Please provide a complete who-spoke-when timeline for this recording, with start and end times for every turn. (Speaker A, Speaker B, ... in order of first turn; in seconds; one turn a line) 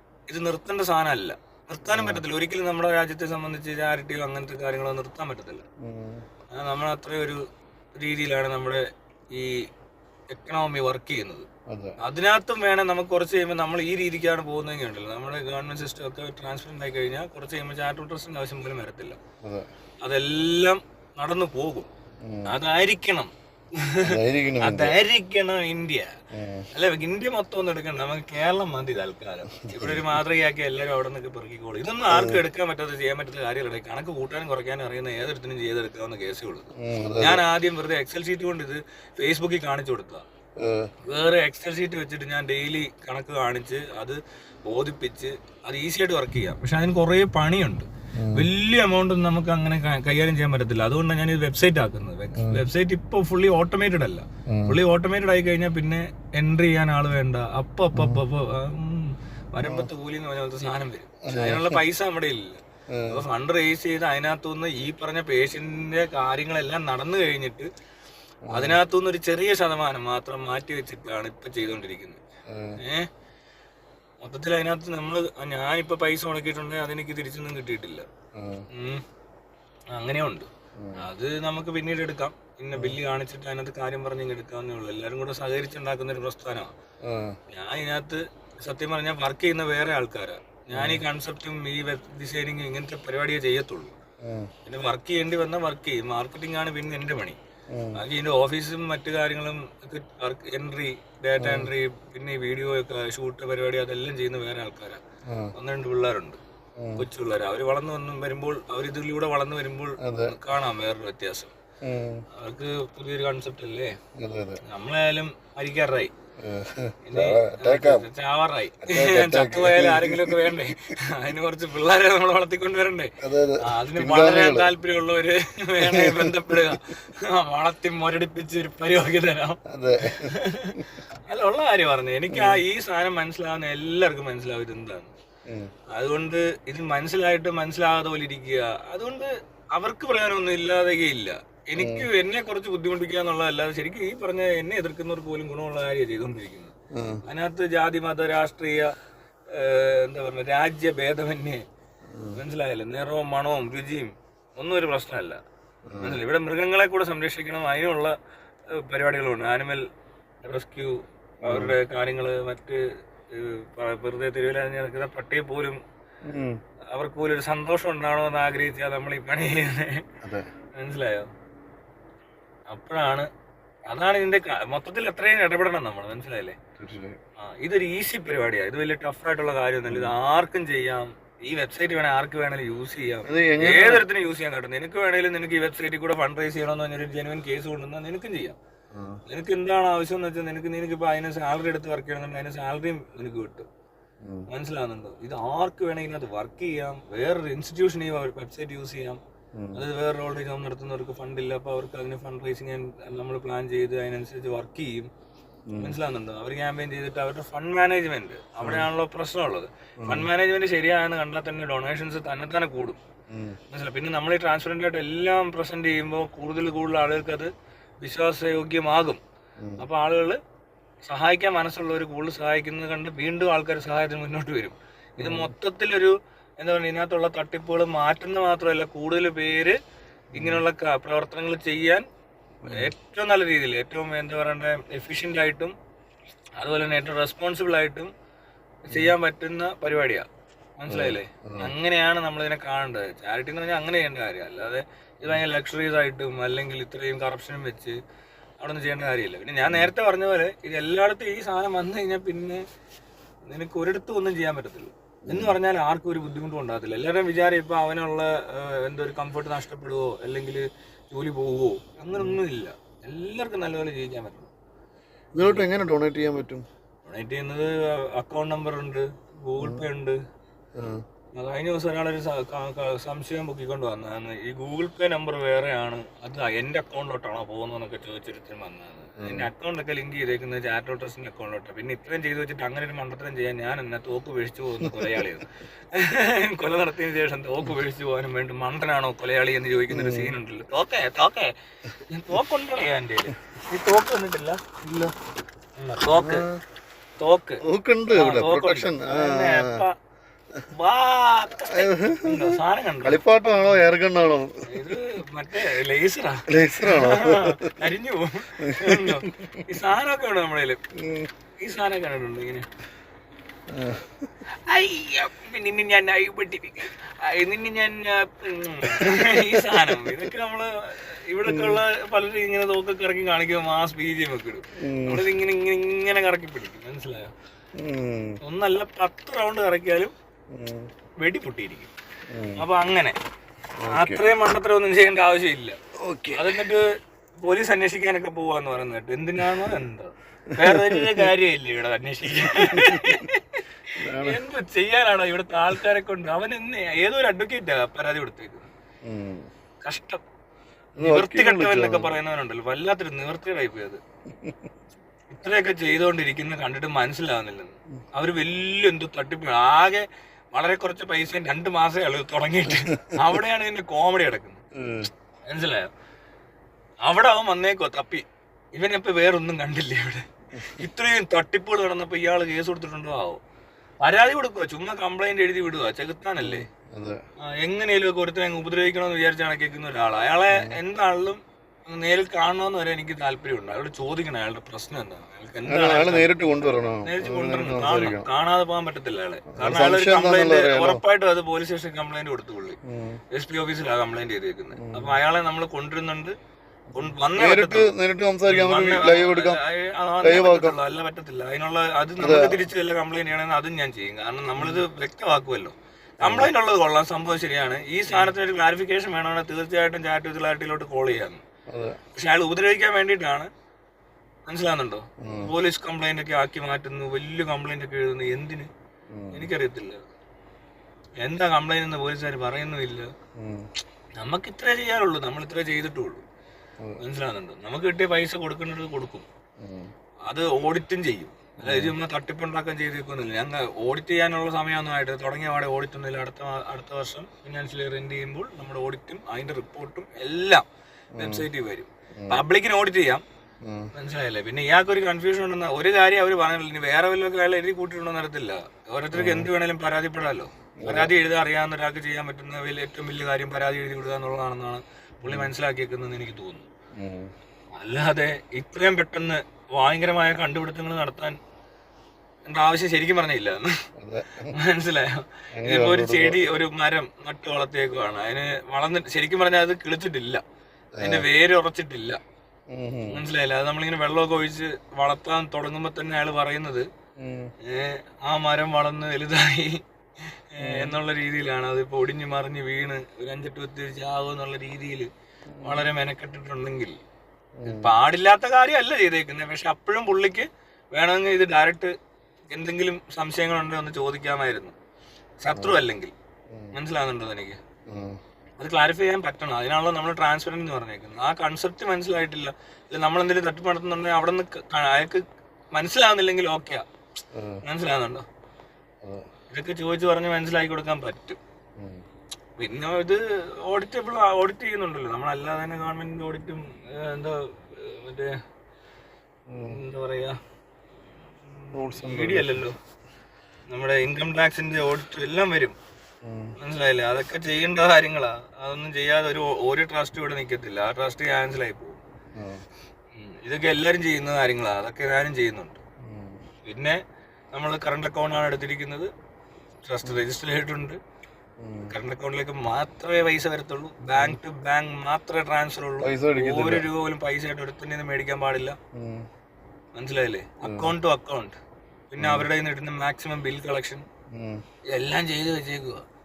Speaker A: 0.3-5.6
Speaker B: 1.9-2.2
Speaker B: 5.8-6.2
Speaker A: 6.5-7.4
Speaker A: 8.0-9.7
Speaker A: 10.3-11.5
Speaker B: 11.7-12.0
Speaker A: 12.0-19.2
Speaker A: 20.0-21.9
Speaker B: 22.2-22.5
Speaker A: 22.5-26.1
Speaker B: 24.0-25.0
Speaker B: 26.3-26.7
Speaker A: 26.7-40.2
Speaker B: 29.7-30.1
Speaker B: 32.1-32.4
Speaker B: 36.8-37.4
Speaker B: 40.6-40.9
Speaker A: 41.0-67.7
Speaker B: 48.2-48.5
Speaker B: 54.5-54.8
Speaker B: 57.9-58.2
Speaker B: 59.6-59.9
Speaker B: 61.3-61.8
Speaker B: 62.9-63.2
Speaker B: 68.5-68.8
Speaker A: 68.5-72.2
Speaker B: 72.5-72.8
Speaker A: 72.8-73.1
Speaker A: 74.2-78.0
Speaker B: 78.3-78.7
Speaker A: 78.7-79.0
Speaker A: 79.9-86.7
Speaker B: 80.8-81.1
Speaker B: 87.0-87.4
Speaker A: 87.5-93.9
Speaker B: 90.7-91.0
Speaker B: 94.2-94.5
Speaker A: 94.6-97.4
Speaker B: 97.7-98.0
Speaker A: 98.0-105.0
Speaker B: 101.4-101.7
Speaker A: 105.5-106.4
Speaker B: 106.8-107.0
Speaker A: 107.0-111.5
Speaker B: 110.0-110.4
Speaker B: 111.8-112.2
Speaker A: 112.3-113.9
Speaker B: 114.2-114.6
Speaker A: 114.6-116.1
Speaker B: 116.4-118.1
Speaker A: 117.0-135.1
Speaker B: 118.9-120.7
Speaker B: 123.2-124.7
Speaker B: 125.9-126.8
Speaker B: 129.7-130.3
Speaker B: 132.3-132.6
Speaker A: 135.9-148.9
Speaker B: 141.8-142.1
Speaker B: 146.9-147.2
Speaker A: 149.5-151.6
Speaker A: 152.3-155.4
Speaker B: 155.9-156.2
Speaker A: 156.0-158.1
Speaker A: 158.7-159.8
Speaker A: 160.4-160.9
Speaker B: 161.4-161.8
Speaker A: 161.4-165.8
Speaker B: 166.3-166.6
Speaker A: 166.9-170.0
Speaker A: 170.8-171.3
Speaker A: 172.7-173.3
Speaker A: 173.9-176.6
Speaker B: 176.8-177.2
Speaker A: 177.4-188.6
Speaker B: 179.9-180.1
Speaker B: 183.2-184.1
Speaker B: 188.9-189.2
Speaker A: 189.3-193.7
Speaker A: 194.5-199.2
Speaker B: 199.6-199.8
Speaker A: 199.7-205.1
Speaker B: 205.7-206.0
Speaker A: 205.8-213.0
Speaker B: 208.6-208.9
Speaker B: 210.0-210.3
Speaker B: 213.3-213.6
Speaker A: 213.7-219.2
Speaker A: 219.8-220.4
Speaker A: 221.1-229.8
Speaker B: 225.2-225.5
Speaker B: 230.3-230.6
Speaker A: 230.3-232.0
Speaker B: 232.6-232.9
Speaker A: 232.7-235.7
Speaker A: 236.6-238.1
Speaker A: 238.9-240.2
Speaker A: 240.8-247.9
Speaker B: 240.9-241.7
Speaker A: 248.6-252.6
Speaker B: 249.7-249.9
Speaker A: 253.4-264.5
Speaker B: 255.3-255.6
Speaker B: 262.1-262.4
Speaker B: 265.3-266.6
Speaker A: 265.4-265.6
Speaker A: 267.1-270.2
Speaker B: 269.6-269.8
Speaker B: 270.8-271.0
Speaker A: 271.3-291.5
Speaker B: 279.2-279.5
Speaker B: 284.8-285.2
Speaker B: 289.9-290.3
Speaker A: 292.0-294.6
Speaker B: 294.8-295.1
Speaker A: 295.8-296.4
Speaker B: 296.1-296.6
Speaker A: 297.2-297.6
Speaker B: 297.6-299.8
Speaker A: 298.1-299.9
Speaker A: 300.7-303.8
Speaker B: 301.6-304.9
Speaker A: 304.7-310.8
Speaker B: 306.5-307.8
Speaker B: 308.6-309.6
Speaker B: 311.0-311.3
Speaker A: 311.6-312.6
Speaker B: 313.7-314.3
Speaker A: 314.6-327.3
Speaker B: 318.9-320.2
Speaker B: 321.4-321.8
Speaker B: 324.8-325.3
Speaker B: 327.8-328.4
Speaker A: 328.4-330.1
Speaker B: 330.5-330.9
Speaker A: 331.2-331.9
Speaker B: 332.3-332.6
Speaker A: 332.6-333.1
Speaker B: 333.8-334.2
Speaker A: 333.9-335.8
Speaker B: 336.0-336.7
Speaker A: 336.3-336.8
Speaker A: 337.4-348.7
Speaker B: 340.5-341.3
Speaker B: 342.6-343.3
Speaker B: 344.0-344.4
Speaker B: 349.0-349.5
Speaker A: 349.8-350.2
Speaker B: 351.0-352.1
Speaker A: 351.0-354.0
Speaker B: 354.3-354.7
Speaker A: 355.3-364.6
Speaker B: 364.8-365.1
Speaker A: 365.5-365.9
Speaker A: 367.0-373.4
Speaker A: 374.0-376.7
Speaker B: 376.4-377.2
Speaker A: 377.6-386.3
Speaker B: 380.5-380.8
Speaker B: 385.7-388.3
Speaker A: 387.0-392.8
Speaker B: 389.5-391.0
Speaker B: 392.8-393.2
Speaker A: 393.3-396.3
Speaker B: 394.8-395.2
Speaker B: 396.9-399.6
Speaker A: 396.9-397.9
Speaker A: 398.5-411.4
Speaker B: 400.2-400.8
Speaker B: 402.2-402.6
Speaker B: 404.6-404.8
Speaker B: 406.2-406.5
Speaker B: 411.7-412.0
Speaker A: 412.1-413.5
Speaker A: 414.5-418.7
Speaker B: 415.2-415.5
Speaker B: 419.1-419.5
Speaker A: 419.3-420.0
Speaker A: 421.2-423.1
Speaker B: 423.4-423.6
Speaker A: 424.2-426.2
Speaker A: 427.0-429.2
Speaker B: 429.6-429.9
Speaker A: 430.3-440.6
Speaker B: 431.6-432.0
Speaker B: 441.1-441.4
Speaker A: 441.2-443.2
Speaker B: 442.2-442.4
Speaker A: 443.9-456.7
Speaker B: 449.1-449.5
Speaker B: 450.8-451.1
Speaker B: 455.2-455.5
Speaker B: 457.0-457.3
Speaker A: 457.8-461.4
Speaker A: 462.5-463.8
Speaker B: 464.0-464.5
Speaker A: 464.5-470.4
Speaker B: 465.6-466.4
Speaker B: 470.9-471.3
Speaker A: 471.0-472.2
Speaker B: 472.7-473.3
Speaker A: 473.1-476.9
Speaker B: 477.2-477.5
Speaker A: 477.6-485.1
Speaker B: 480.6-481.0
Speaker B: 485.5-485.9
Speaker A: 485.6-486.9
Speaker B: 487.6-487.9
Speaker A: 487.6-491.9
Speaker A: 492.5-494.7
Speaker A: 495.4-496.1
Speaker B: 495.5-495.8
Speaker A: 496.7-497.6
Speaker B: 497.9-498.2
Speaker A: 498.6-505.2
Speaker A: 505.7-506.9
Speaker B: 507.3-507.6
Speaker A: 507.6-508.2
Speaker A: 509.5-511.4
Speaker B: 511.8-512.0
Speaker A: 512.6-518.3
Speaker B: 519.5-519.8
Speaker A: 519.6-520.4
Speaker A: 521.5-522.8
Speaker B: 521.7-522.6
Speaker A: 523.7-525.8
Speaker B: 526.2-526.5
Speaker A: 526.6-532.0
Speaker B: 532.4-532.6
Speaker A: 533.1-535.8
Speaker B: 536.0-536.4
Speaker A: 536.6-537.0
Speaker A: 537.5-539.1
Speaker A: 539.8-541.0
Speaker B: 541.6-541.9
Speaker A: 541.9-548.8
Speaker B: 546.0-546.9
Speaker B: 548.9-549.3
Speaker A: 549.9-551.5
Speaker B: 550.6-550.9
Speaker A: 552.1-554.0
Speaker B: 552.2-552.5
Speaker B: 554.3-554.6
Speaker A: 554.9-556.0